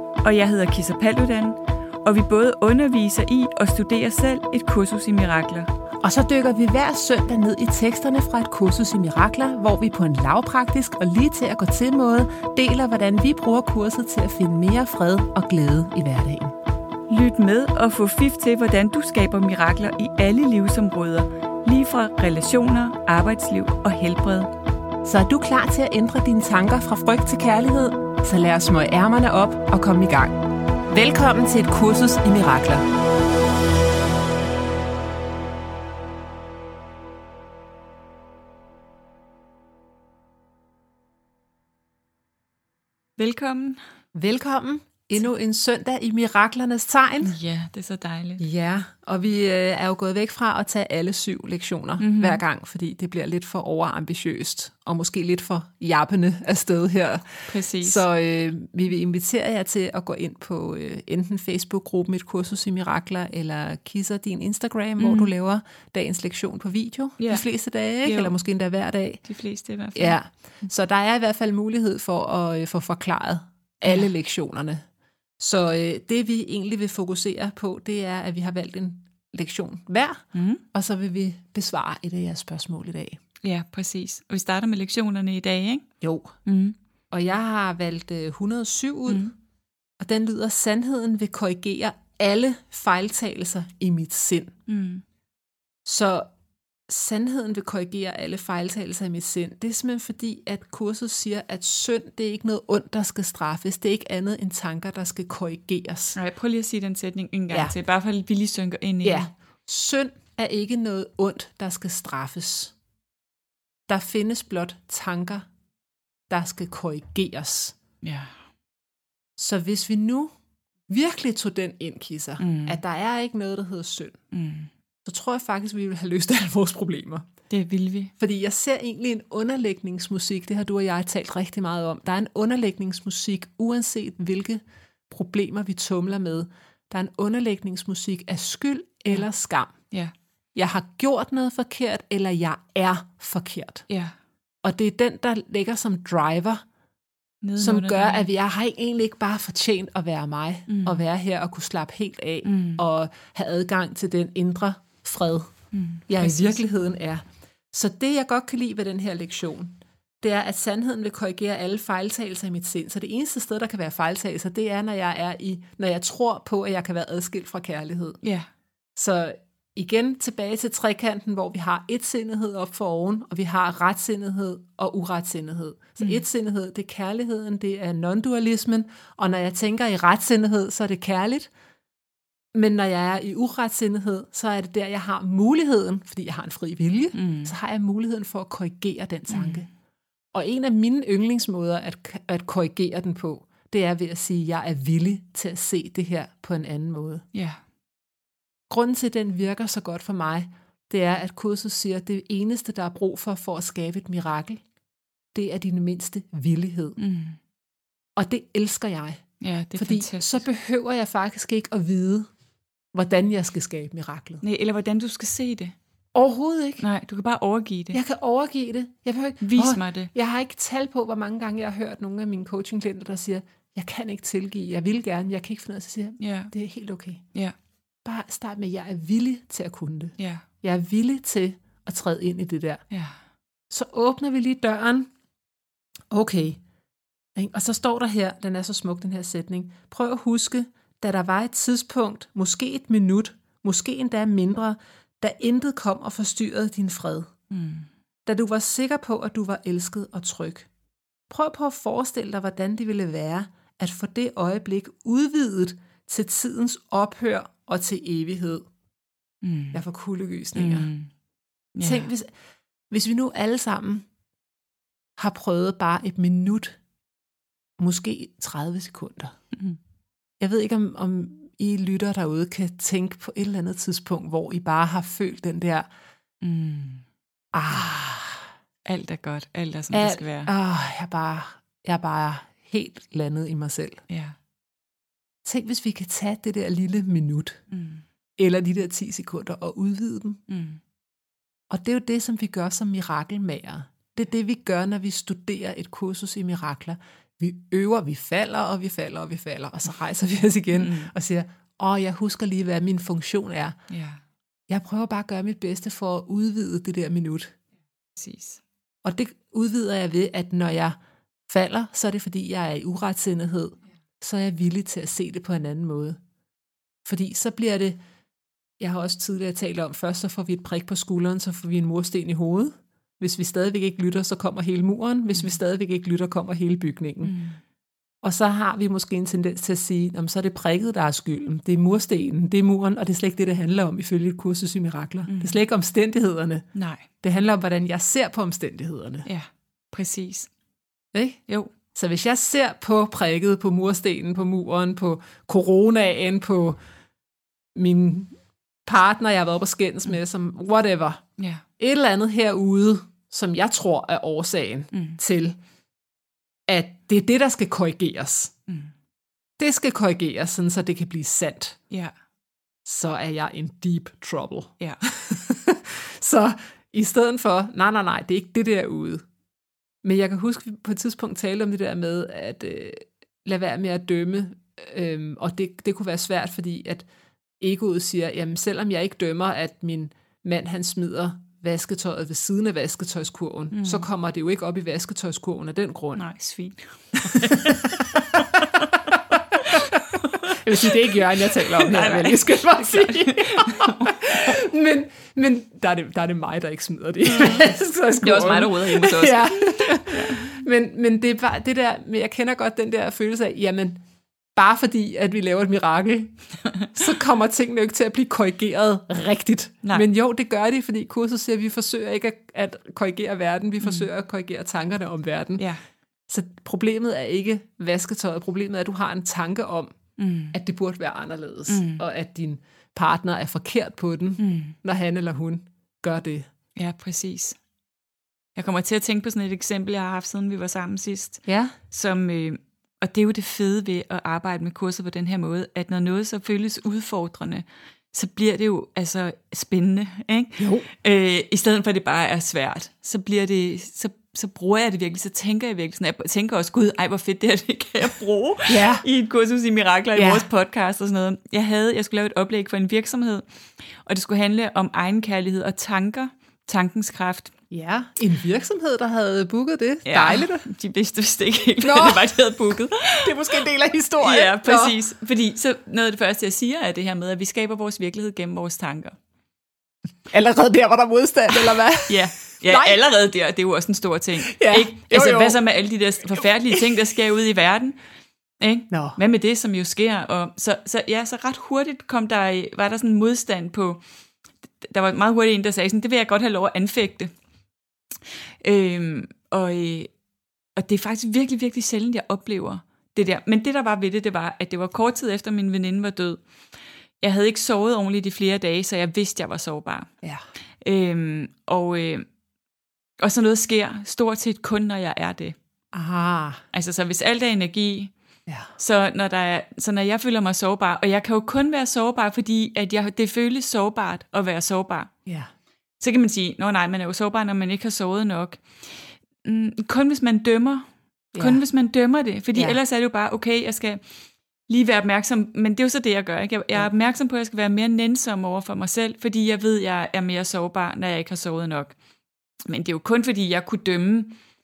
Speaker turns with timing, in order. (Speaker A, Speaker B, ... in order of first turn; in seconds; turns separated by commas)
Speaker A: 0.2-5.7, Speaker B: 6.0-16.5, Speaker A: 17.1-24.5, Speaker B: 25.0-32.9, Speaker A: 43.2-43.8, Speaker B: 44.1-47.4, Speaker A: 47.2-48.4, Speaker B: 48.4-69.2, Speaker A: 52.0-52.4, Speaker A: 57.5-58.0, Speaker A: 65.0-65.3, Speaker A: 67.2-67.4, Speaker A: 68.0-68.3, Speaker A: 69.2-70.2, Speaker B: 70.0-74.8, Speaker B: 75.4-80.2, Speaker A: 80.3-80.6, Speaker B: 80.7-83.2, Speaker A: 83.4-85.8, Speaker B: 86.0-86.3, Speaker A: 86.4-86.8, Speaker B: 87.1-89.3, Speaker B: 90.0-94.5, Speaker A: 94.7-95.0, Speaker B: 95.8-96.3, Speaker B: 96.9-106.2, Speaker A: 106.2-109.3, Speaker B: 109.0-112.7, Speaker B: 113.9-115.5, Speaker B: 116.3-117.8, Speaker A: 118.0-118.3, Speaker B: 119.4-120.3, Speaker B: 120.9-124.2, Speaker A: 122.4-122.8, Speaker A: 124.3-124.7, Speaker B: 125.0-127.3, Speaker A: 127.5-128.1, Speaker B: 128.2-139.7, Speaker B: 140.5-143.8, Speaker A: 143.9-144.1, Speaker B: 144.6-146.6, Speaker A: 147.4-148.3, Speaker B: 147.6-155.5, Speaker A: 150.7-151.0, Speaker A: 152.4-152.8, Speaker A: 155.7-156.6, Speaker B: 156.1-168.2, Speaker A: 168.2-168.5, Speaker B: 168.9-181.5, Speaker B: 182.5-189.7, Speaker A: 187.1-187.5, Speaker A: 189.3-189.7, Speaker B: 190.3-197.2, Speaker A: 197.3-197.6, Speaker B: 198.7-204.6, Speaker B: 205.3-207.0, Speaker A: 207.0-207.4, Speaker B: 208.2-209.2, Speaker A: 209.4-210.4, Speaker B: 209.8-212.3, Speaker B: 212.9-214.4, Speaker A: 214.4-215.7, Speaker B: 216.1-216.8, Speaker A: 216.8-218.0, Speaker B: 217.9-227.2, Speaker A: 219.4-220.1, Speaker A: 226.2-226.5, Speaker B: 228.0-232.8, Speaker A: 230.2-230.4, Speaker B: 233.7-235.1, Speaker B: 236.1-236.6, Speaker B: 237.3-247.3, Speaker A: 247.5-247.9, Speaker B: 248.2-250.7, Speaker B: 251.3-258.7, Speaker A: 259.4-259.8, Speaker B: 259.7-260.9, Speaker A: 260.5-261.1, Speaker A: 261.7-262.1, Speaker B: 261.8-262.3, Speaker B: 262.9-264.1, Speaker B: 265.2-266.8, Speaker B: 267.8-269.3, Speaker A: 269.5-269.8, Speaker B: 270.4-275.9, Speaker A: 276.4-277.0, Speaker B: 277.5-278.4, Speaker A: 278.8-280.5, Speaker B: 279.9-284.0, Speaker A: 284.1-284.4, Speaker B: 285.4-287.6, Speaker A: 287.7-288.0, Speaker B: 288.4-290.4, Speaker A: 290.5-290.8, Speaker B: 291.7-303.8, Speaker A: 300.7-301.1, Speaker A: 303.9-304.2, Speaker B: 304.7-307.5, Speaker A: 308.1-308.6, Speaker B: 309.0-310.9, Speaker B: 311.5-316.2, Speaker B: 317.0-318.0, Speaker B: 318.8-327.3, Speaker A: 327.2-327.6, Speaker B: 328.2-336.7, Speaker A: 335.2-335.6, Speaker A: 336.7-337.1, Speaker B: 337.2-339.3, Speaker A: 339.2-340.5, Speaker B: 341.1-341.4, Speaker B: 341.9-346.8, Speaker B: 347.7-348.3, Speaker B: 348.9-351.2, Speaker A: 351.4-351.6, Speaker B: 351.8-355.6, Speaker A: 354.9-355.2, Speaker B: 356.7-358.5, Speaker B: 359.6-361.8, Speaker B: 362.8-369.2, Speaker B: 370.0-377.1, Speaker B: 377.6-386.2, Speaker A: 383.7-384.0, Speaker A: 386.2-394.5, Speaker B: 387.2-389.1, Speaker B: 389.7-404.0, Speaker A: 397.2-397.6, Speaker A: 398.2-400.6, Speaker B: 404.5-406.3, Speaker B: 406.9-415.6, Speaker A: 413.8-414.1, Speaker B: 416.3-419.9, Speaker A: 420.2-420.6, Speaker B: 420.5-426.5, Speaker A: 421.7-422.0, Speaker A: 424.4-424.8, Speaker A: 426.8-427.6, Speaker A: 428.6-453.4, Speaker B: 431.5-431.7, Speaker B: 440.6-440.9, Speaker B: 448.7-449.0, Speaker B: 450.1-450.4, Speaker A: 454.0-457.5, Speaker B: 457.7-460.6, Speaker A: 460.1-463.3, Speaker B: 461.8-462.4, Speaker B: 463.2-464.9, Speaker A: 464.2-469.2, Speaker B: 470.3-472.9, Speaker A: 472.1-477.9, Speaker B: 474.5-475.6, Speaker A: 478.6-484.0, Speaker B: 478.9-479.2, Speaker A: 484.8-487.3, Speaker A: 488.6-490.1, Speaker A: 490.8-496.4, Speaker A: 497.2-500.1, Speaker A: 500.8-502.2, Speaker A: 503.2-505.6, Speaker B: 505.9-506.6, Speaker A: 506.7-508.1, Speaker A: 508.8-515.1, Speaker A: 516.0-518.6, Speaker A: 519.4-524.0, Speaker B: 521.3-521.6, Speaker A: 524.7-532.0, Speaker A: 532.7-534.4